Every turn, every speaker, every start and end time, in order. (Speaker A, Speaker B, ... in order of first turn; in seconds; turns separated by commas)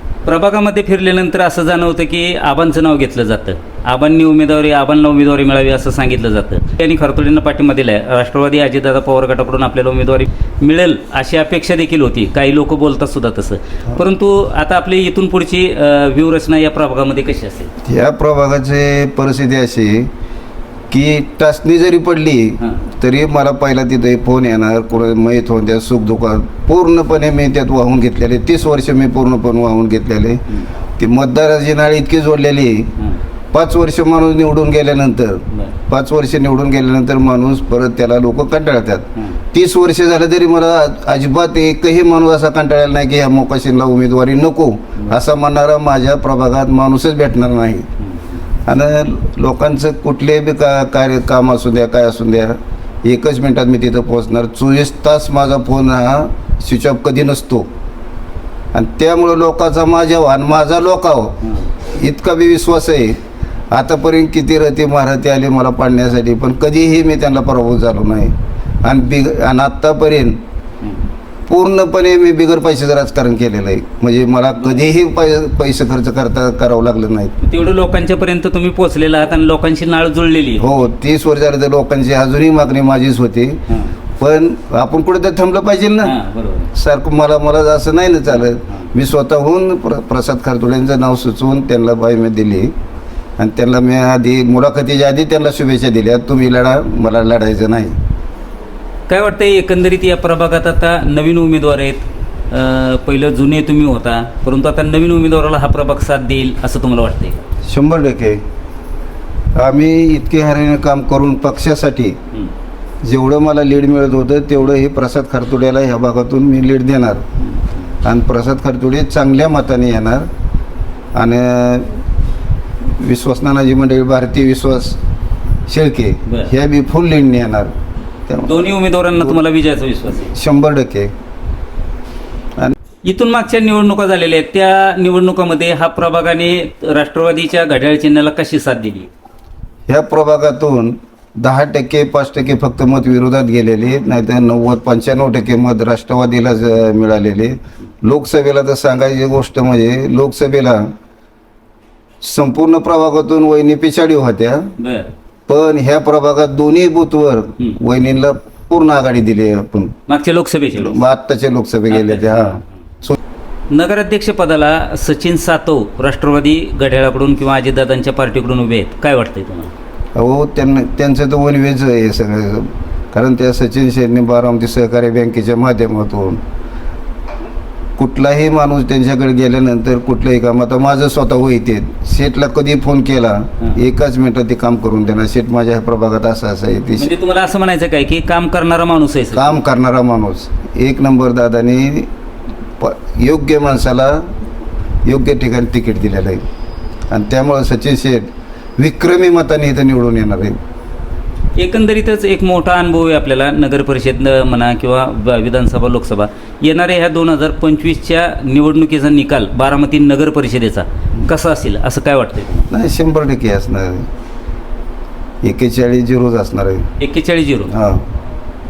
Speaker A: 0.3-17.7, Speaker B: 17.8-20.1, Speaker B: 20.9-33.0, Speaker B: 33.5-47.9, Speaker B: 48.6-57.7, Speaker B: 58.7-63.2, Speaker B: 63.7-70.4, Speaker B: 71.5-77.4, Speaker A: 77.4-80.7, Speaker B: 80.6-83.6, Speaker A: 83.7-84.0, Speaker B: 84.2-86.2, Speaker A: 86.0-86.7, Speaker B: 86.7-92.7, Speaker B: 93.4-98.0, Speaker A: 99.1-107.4, Speaker B: 107.7-108.4, Speaker B: 109.5-112.2, Speaker B: 113.0-117.2, Speaker B: 118.0-120.3, Speaker B: 121.1-122.0, Speaker B: 122.8-125.0, Speaker B: 125.7-127.7, Speaker B: 128.3-128.5, Speaker A: 128.4-130.3, Speaker B: 130.3-131.1, Speaker A: 133.0-139.1, Speaker B: 139.9-150.9, Speaker B: 152.2-154.7, Speaker A: 154.8-155.1, Speaker B: 155.5-160.0, Speaker A: 160.1-161.0, Speaker B: 160.8-163.2, Speaker A: 161.9-162.6, Speaker A: 163.7-169.7, Speaker B: 170.2-176.4, Speaker B: 178.0-187.1, Speaker A: 187.0-189.6, Speaker B: 189.3-192.1, Speaker B: 192.8-194.3, Speaker B: 195.1-196.4, Speaker B: 197.1-200.6, Speaker A: 201.6-212.7, Speaker B: 212.7-214.1, Speaker B: 215.4-216.9, Speaker A: 217.0-217.8, Speaker B: 217.7-218.1